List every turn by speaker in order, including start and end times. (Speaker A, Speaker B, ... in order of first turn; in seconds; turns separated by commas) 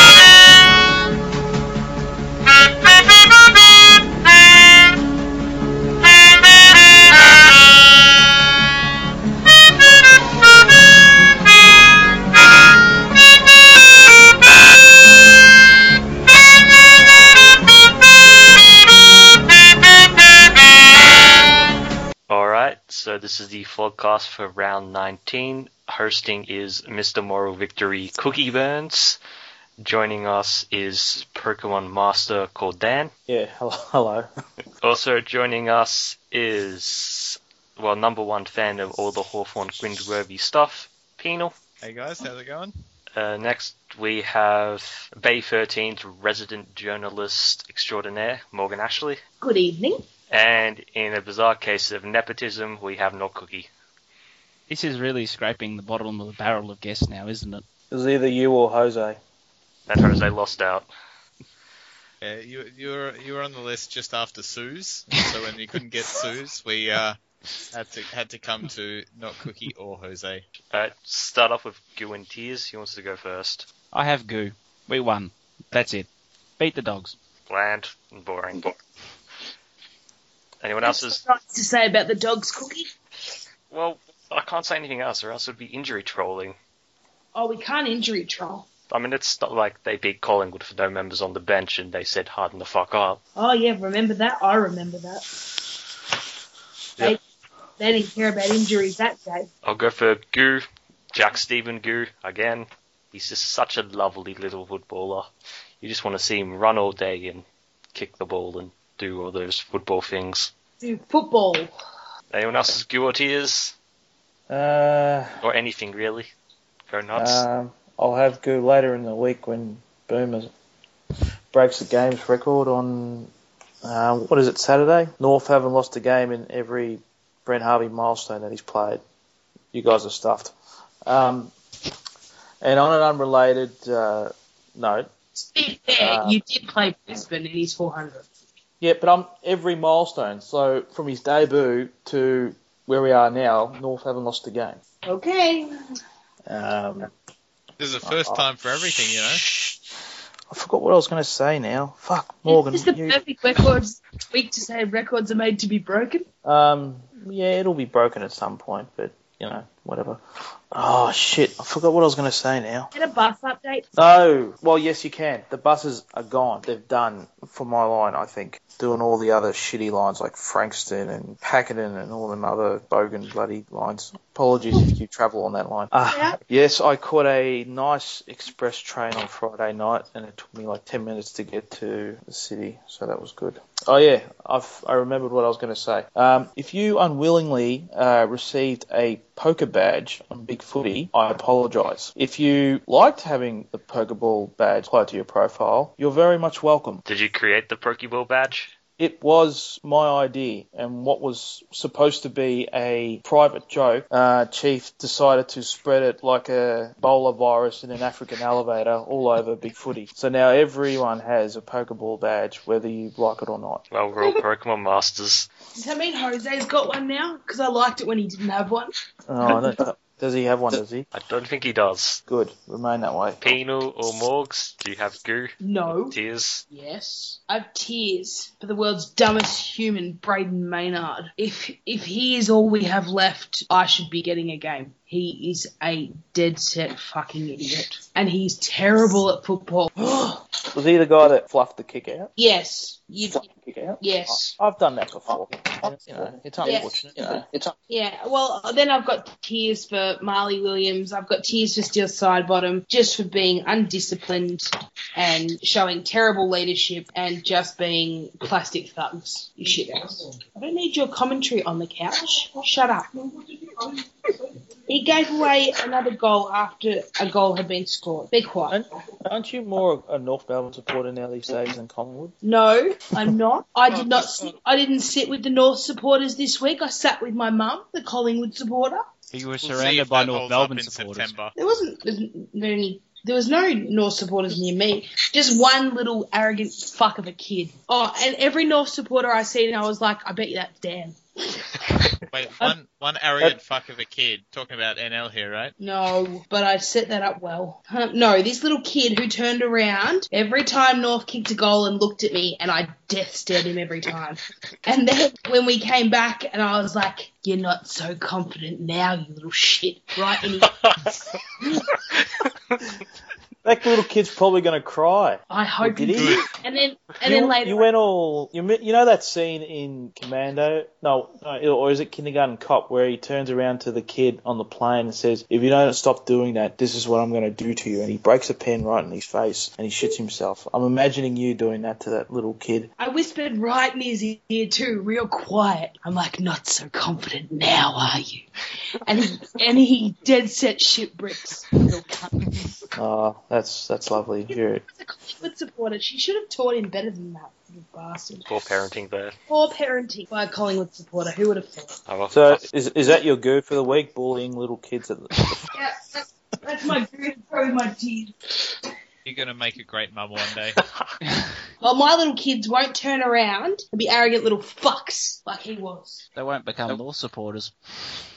Speaker A: 22.3-29.2, Speaker A: 29.8-33.1, Speaker B: 33.3-34.3, Speaker A: 34.8-41.5, Speaker C: 41.8-42.7, Speaker A: 43.1-49.2, Speaker D: 49.4-50.0, Speaker A: 50.3-53.7, Speaker E: 54.7-57.6, Speaker B: 57.9-59.2, Speaker A: 59.9-60.9, Speaker C: 62.2-67.2, Speaker C: 67.7-70.4, Speaker A: 70.7-73.7, Speaker E: 73.9-76.1, Speaker E: 76.6-77.2, Speaker A: 77.5-78.7, Speaker A: 80.6-81.2, Speaker D: 80.8-82.9, Speaker A: 83.7-86.5, Speaker D: 87.3-88.7, Speaker A: 88.9-93.2, Speaker D: 93.3-95.3, Speaker D: 97.8-99.5, Speaker A: 99.6-105.3, Speaker A: 105.8-110.5, Speaker D: 110.8-111.7, Speaker A: 112.3-113.7, Speaker B: 114.5-115.4, Speaker A: 115.4-116.3, Speaker A: 116.9-117.4, Speaker B: 117.1-120.5, Speaker B: 121.5-123.3, Speaker B: 123.8-129.0, Speaker B: 129.7-130.5, Speaker B: 131.0-131.5, Speaker B: 132.6-135.1, Speaker D: 135.4-138.2, Speaker B: 135.9-136.4, Speaker B: 138.8-144.8, Speaker D: 145.0-145.7, Speaker B: 146.4-147.1, Speaker C: 147.8-149.4, Speaker B: 148.0-149.9, Speaker B: 150.5-153.2, Speaker D: 152.5-156.2, Speaker B: 156.4-162.9, Speaker D: 162.9-163.8, Speaker B: 163.9-197.0, Speaker D: 176.1-176.4, Speaker A: 197.1-198.7, Speaker B: 199.0-213.8, Speaker A: 213.9-215.5, Speaker D: 215.7-218.9, Speaker B: 219.3-221.1, Speaker A: 221.1-222.2, Speaker B: 222.3-223.6, Speaker A: 223.4-226.6, Speaker D: 225.6-226.2, Speaker D: 226.7-240.2, Speaker B: 240.0-242.3, Speaker D: 242.4-243.5, Speaker B: 243.4-247.5, Speaker D: 244.0-244.5, Speaker D: 246.6-247.0, Speaker D: 247.9-263.1, Speaker D: 264.9-268.8, Speaker B: 268.7-272.3, Speaker D: 272.4-279.1, Speaker B: 273.9-274.5, Speaker E: 279.3-281.4, Speaker C: 279.6-281.5, Speaker D: 281.5-292.1, Speaker C: 292.3-295.7, Speaker D: 295.8-310.8, Speaker A: 310.6-311.1, Speaker B: 313.6-316.4, Speaker D: 315.5-317.9, Speaker C: 316.1-316.4, Speaker B: 317.2-332.9, Speaker D: 333.0-342.7, Speaker B: 342.9-344.8, Speaker D: 344.9-348.4, Speaker A: 348.4-349.3, Speaker D: 349.5-351.9, Speaker A: 352.1-352.6, Speaker B: 352.3-355.7, Speaker D: 355.7-358.4, Speaker C: 359.2-360.8, Speaker E: 361.2-361.5, Speaker D: 361.8-366.2, Speaker E: 366.4-367.7